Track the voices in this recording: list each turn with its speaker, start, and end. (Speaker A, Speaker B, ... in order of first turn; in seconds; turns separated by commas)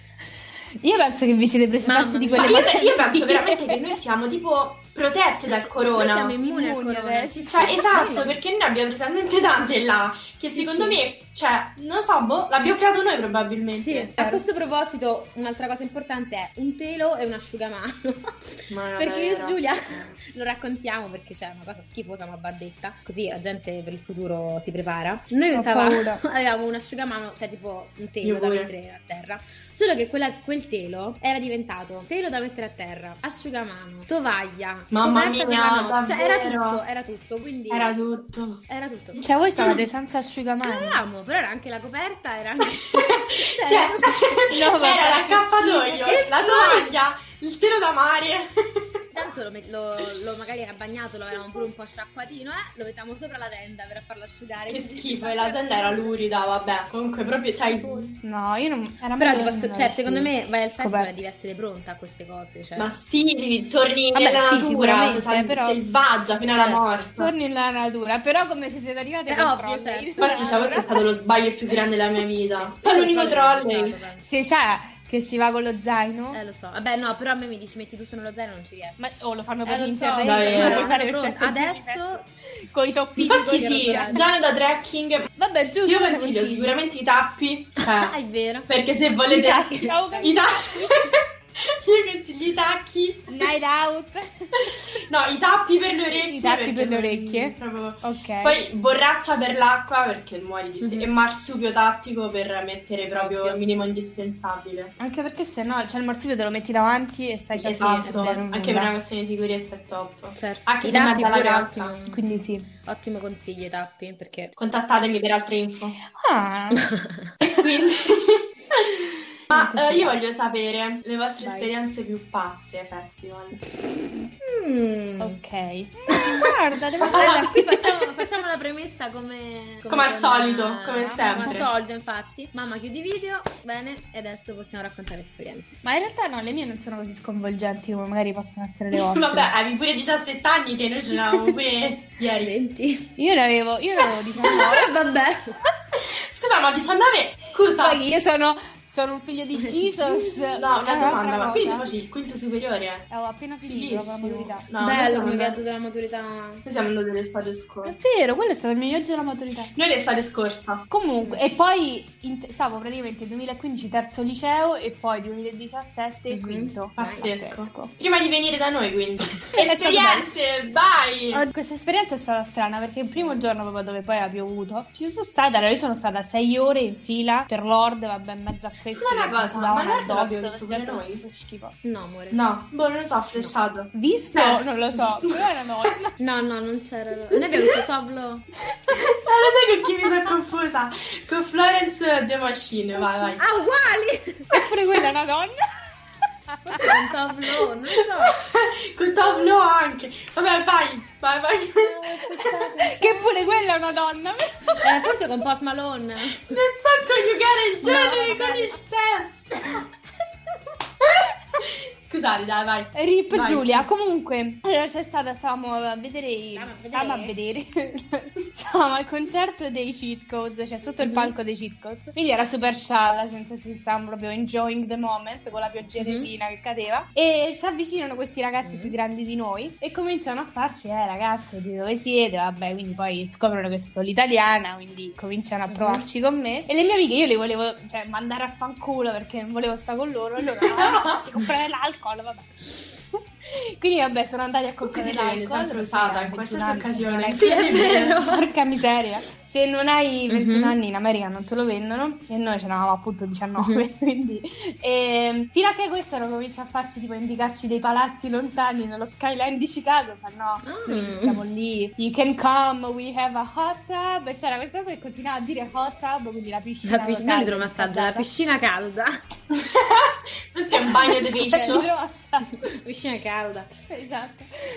Speaker A: 0.8-3.8, Speaker B: 1.8-2.7, Speaker C: 2.3-6.3, Speaker B: 5.6-8.4, Speaker A: 6.4-7.8, Speaker C: 7.5-14.1, Speaker A: 10.6-10.9, Speaker B: 13.7-18.4, Speaker C: 18.7-19.6, Speaker B: 18.9-38.0, Speaker A: 25.5-26.2, Speaker C: 28.2-28.7, Speaker C: 34.9-36.8, Speaker C: 37.7-38.6, Speaker B: 38.7-39.2, Speaker A: 39.1-41.0, Speaker B: 40.6-44.5, Speaker C: 43.0-49.0, Speaker A: 44.5-46.5, Speaker B: 46.0-46.9, Speaker B: 49.1-56.1, Speaker C: 54.7-58.1, Speaker A: 58.2-61.1, Speaker B: 59.2-62.9, Speaker C: 62.8-67.3, Speaker A: 64.1-65.8, Speaker B: 66.5-66.9, Speaker A: 67.2-70.9, Speaker B: 69.3-70.3, Speaker C: 70.2-74.0, Speaker B: 72.6-74.3, Speaker A: 74.2-76.4, Speaker B: 76.3-79.0, Speaker A: 79.0-84.2, Speaker B: 79.6-82.2, Speaker C: 80.2-80.9, Speaker C: 83.2-85.3, Speaker B: 83.3-84.3, Speaker A: 85.4-86.7, Speaker C: 85.8-88.2, Speaker B: 88.0-88.7, Speaker C: 88.7-93.5, Speaker A: 89.3-91.0, Speaker B: 89.8-90.3, Speaker A: 93.3-94.9, Speaker C: 95.0-104.9, Speaker A: 96.3-98.6, Speaker B: 100.8-101.1, Speaker B: 103.1-103.6, Speaker A: 105.0-108.9, Speaker C: 107.5-111.9, Speaker B: 110.3-112.2, Speaker A: 112.1-112.7, Speaker B: 112.8-114.5, Speaker C: 114.5-116.0, Speaker A: 116.0-116.9, Speaker B: 116.7-117.3, Speaker C: 117.4-123.6, Speaker B: 119.5-120.0, Speaker A: 121.4-121.7, Speaker B: 124.4-125.4, Speaker A: 125.2-128.2, Speaker B: 126.1-126.4, Speaker C: 127.0-127.5, Speaker B: 127.1-135.8, Speaker C: 129.9-131.7, Speaker A: 130.9-131.6, Speaker A: 135.8-139.5, Speaker C: 138.9-142.5, Speaker B: 142.4-143.1, Speaker A: 143.2-144.9, Speaker B: 144.4-145.6, Speaker C: 146.0-148.0, Speaker A: 147.8-151.8, Speaker B: 149.6-150.7, Speaker C: 150.6-153.1, Speaker A: 153.1-154.7, Speaker C: 153.6-155.6, Speaker B: 154.8-156.6, Speaker C: 156.6-157.9, Speaker A: 157.8-159.7, Speaker C: 159.7-160.9, Speaker A: 160.9-167.9, Speaker B: 166.3-167.3, Speaker C: 167.0-171.4, Speaker A: 169.6-170.4, Speaker A: 171.3-181.7, Speaker B: 173.2-173.4, Speaker C: 178.9-181.2, Speaker B: 181.8-182.4, Speaker C: 182.3-184.6, Speaker A: 183.9-186.1, Speaker B: 186.2-188.5, Speaker C: 188.9-193.4, Speaker B: 193.4-194.6, Speaker A: 194.5-195.9, Speaker A: 196.5-197.1, Speaker B: 196.8-198.3, Speaker C: 198.4-202.0, Speaker B: 202.1-203.2, Speaker A: 202.2-204.9, Speaker B: 204.8-206.6, Speaker C: 206.4-209.8, Speaker B: 207.8-208.8, Speaker C: 211.6-213.8, Speaker A: 212.9-268.3, Speaker B: 216.5-217.3, Speaker B: 221.0-221.3, Speaker B: 226.0-226.3, Speaker B: 228.6-228.9, Speaker B: 235.7-236.0, Speaker C: 240.7-241.2, Speaker C: 244.8-248.2, Speaker B: 247.3-248.5, Speaker B: 250.3-250.8, Speaker B: 253.6-253.8, Speaker B: 260.6-261.4, Speaker B: 266.8-269.1, Speaker C: 269.5-271.9, Speaker A: 271.1-272.6, Speaker B: 271.5-271.8, Speaker B: 272.5-273.7, Speaker A: 273.9-274.5